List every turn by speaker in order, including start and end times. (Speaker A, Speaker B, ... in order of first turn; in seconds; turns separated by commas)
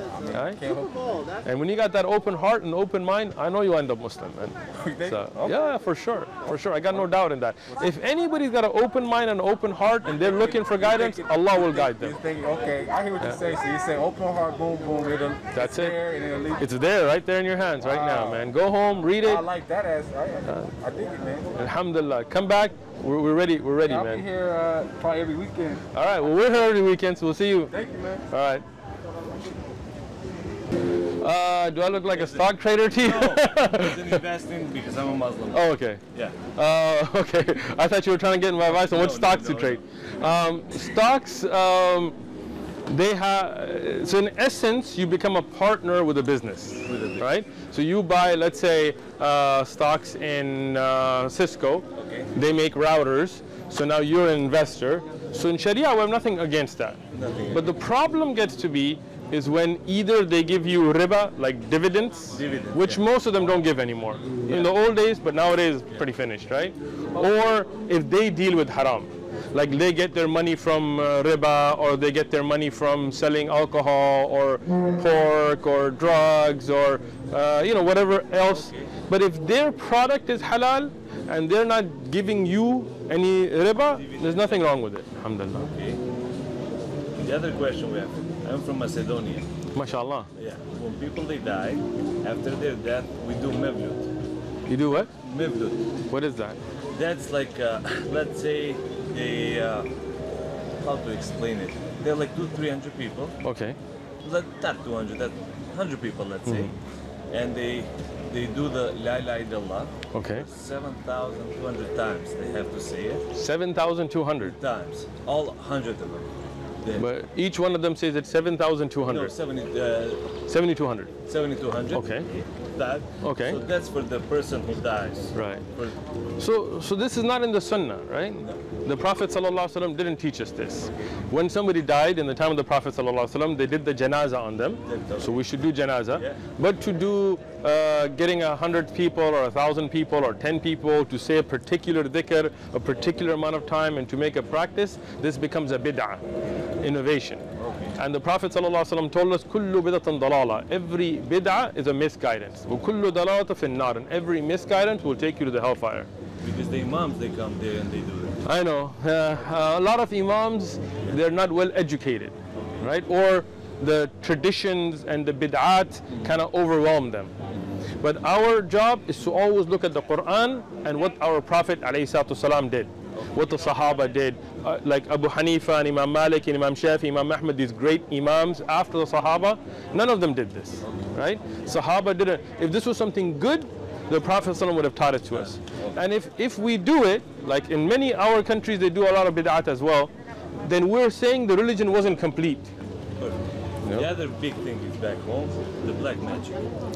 Speaker A: 0.1-1.2, Speaker B: 0.3-0.6, Speaker B: 1.4-12.1, Speaker A: 4.7-5.6, Speaker A: 10.1-16.6, Speaker B: 15.5-16.0, Speaker B: 16.6-19.4, Speaker A: 17.8-18.5, Speaker A: 19.2-21.5, Speaker B: 20.5-20.7, Speaker B: 21.5-24.2, Speaker A: 23.8-25.9, Speaker B: 25.9-27.7, Speaker A: 27.7-28.3, Speaker B: 28.3-28.6, Speaker B: 31.2-34.2, Speaker C: 32.1-36.4, Speaker B: 35.5-36.0, Speaker B: 36.5-42.1, Speaker C: 38.7-39.8, Speaker B: 42.9-85.7, Speaker C: 46.9-47.3, Speaker C: 52.0-52.3, Speaker C: 57.1-57.7, Speaker C: 62.3-63.0, Speaker C: 64.4-64.7, Speaker C: 78.4-78.9, Speaker C: 83.8-84.8, Speaker C: 85.6-86.0, Speaker C: 87.2-89.5, Speaker B: 89.7-90.3, Speaker C: 90.3-94.1, Speaker B: 94.7-95.1, Speaker C: 95.2-95.8, Speaker B: 96.1-96.6, Speaker C: 96.9-99.9, Speaker C: 100.8-103.4, Speaker B: 103.4-103.8, Speaker C: 104.2-106.7, Speaker B: 106.4-106.7, Speaker C: 107.3-113.2, Speaker B: 110.1-110.5, Speaker B: 113.3-114.5, Speaker C: 114.4-116.3, Speaker B: 117.0-119.3, Speaker C: 119.0-120.3, Speaker B: 120.5-121.1, Speaker C: 121.3-126.0, Speaker B: 121.9-122.3, Speaker B: 123.2-123.7, Speaker B: 125.3-125.7, Speaker B: 126.4-146.2, Speaker C: 134.8-135.4, Speaker C: 136.1-136.4, Speaker B: 146.8-147.4, Speaker C: 147.6-148.0, Speaker B: 147.9-156.1, Speaker C: 156.4-158.4, Speaker B: 158.4-167.3, Speaker B: 168.0-192.7, Speaker C: 185.3-185.9, Speaker C: 193.9-196.7